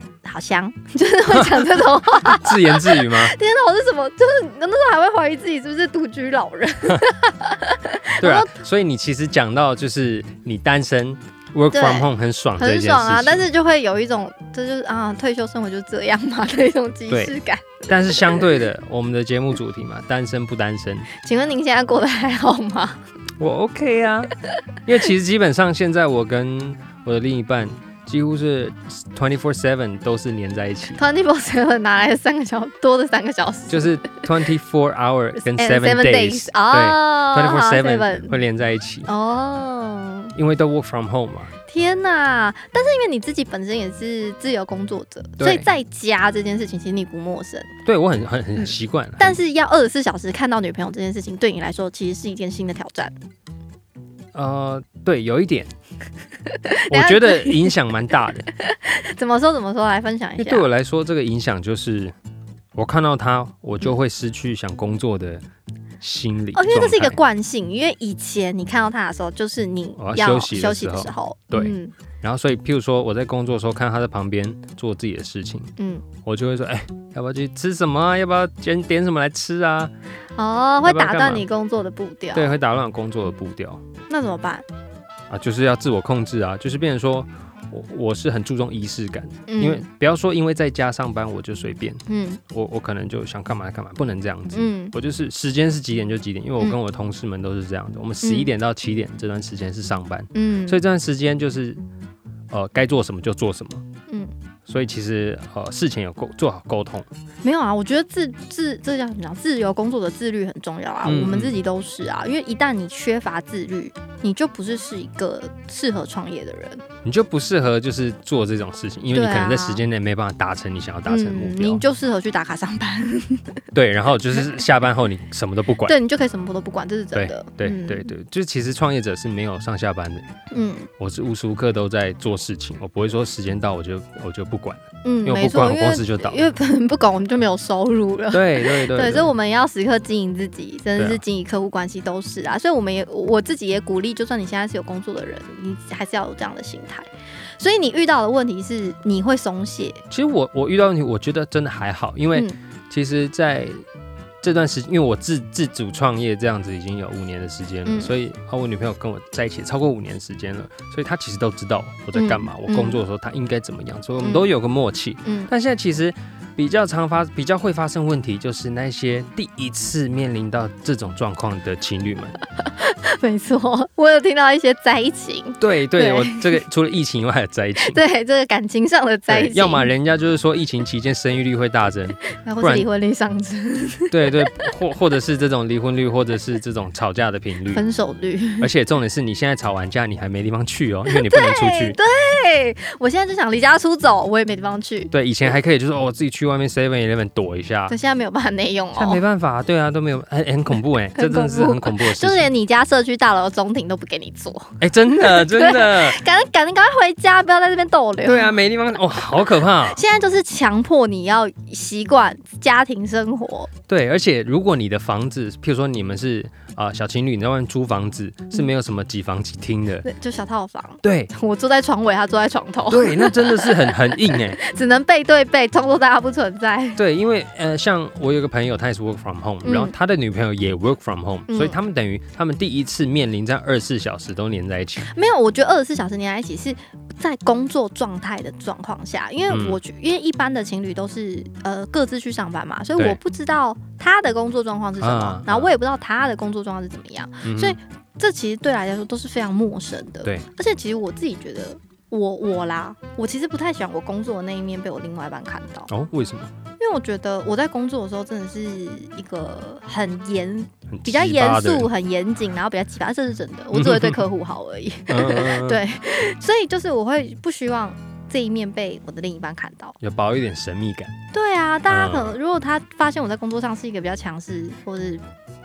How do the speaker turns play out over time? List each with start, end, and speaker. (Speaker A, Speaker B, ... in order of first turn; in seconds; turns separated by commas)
Speaker A: 0.2-8.5, Speaker B: 1.3-3.3, Speaker B: 8.2-13.4, Speaker A: 11.7-18.5, Speaker B: 17.1-17.3, Speaker B: 17.9-21.1, Speaker A: 21.1-23.0, Speaker B: 23.4-24.3, Speaker B: 24.9-31.0, Speaker A: 30.9-34.2, Speaker B: 33.7-39.1, Speaker A: 35.4-38.3, Speaker A: 39.0-40.3, Speaker B: 40.3-41.5, Speaker A: 41.7-47.7, Speaker B: 45.4-45.7, Speaker B: 47.8-49.4, Speaker A: 48.5-53.1, Speaker B: 54.3-55.7, Speaker A: 56.5-57.7, Speaker B: 56.9-58.5, Speaker A: 58.5-60.6, Speaker B: 60.4-62.1, Speaker B: 62.7-65.4, Speaker B: 66.0-67.2, Speaker A: 66.5-71.9, Speaker B: 70.0-79.9, Speaker A: 75.8-76.0, Speaker A: 80.4-82.5, Speaker B: 80.8-81.5, Speaker B: 82.3-83.8, Speaker A: 84.1-84.6, Speaker B: 85.3-101.8, Speaker A: 89.5-89.8, Speaker A: 92.1-92.4, Speaker A: 94.5-94.9, Speaker A: 98.2-98.5, Speaker A: 100.3-100.8, Speaker B: 102.5-103.8, Speaker B: 104.7-107.1, Speaker A: 107.4-116.8, Speaker B: 111.0-111.6, Speaker B: 117.0-121.8, Speaker A: 119.1-119.8, Speaker A: 121.1-123.6, Speaker B: 123.7-126.0, Speaker A: 124.3-124.6, Speaker A: 125.8-128.1, Speaker B: 127.1-130.2, Speaker A: 130.5-130.9, Speaker B: 131.0-136.4, Speaker A: 135.0-150.0, Speaker B: 138.3-139.3, Speaker B: 141.0-141.2, Speaker B: 150.1-153.8, Speaker B: 154.4-172.3, Speaker A: 157.8-158.2, Speaker A: 162.1-163.0, Speaker A: 164.2-164.5, Speaker A: 165.2-165.5, Speaker A: 172.6-176.6, Speaker B: 175.6-178.0, Speaker A: 177.8-179.9, Speaker B: 179.3-182.8, Speaker A: 182.3-184.7, Speaker B: 184.1-187.8, Speaker A: 187.7-188.7, Speaker B: 188.6-192.0, Speaker A: 191.1-195.1, Speaker B: 195.1-197.9, Speaker A: 197.9-199.2, Speaker B: 198.9-202.5, Speaker A: 201.1-208.6, Speaker B: 204.8-206.2, Speaker B: 208.2-210.0, Speaker A: 209.8-213.7, Speaker B: 213.9-220.1, Speaker A: 220.0-227.0, Speaker B: 221.0-221.3, Speaker B: 222.9-224.6, Speaker B: 226.9-235.1, Speaker A: 229.6-229.9, Speaker A: 231.5-231.8, Speaker A: 235.0-255.9, Speaker B: 239.5-239.8, Speaker B: 245.0-245.7, Speaker B: 247.4-247.8, Speaker B: 255.9-256.5, Speaker A: 256.8-269.9, Speaker B: 260.9-261.9, Speaker B: 263.7-264.2, Speaker B: 265.1-265.8, Speaker B: 270.0-271.1, Speaker A: 271.3-275.2, Speaker B: 271.9-272.4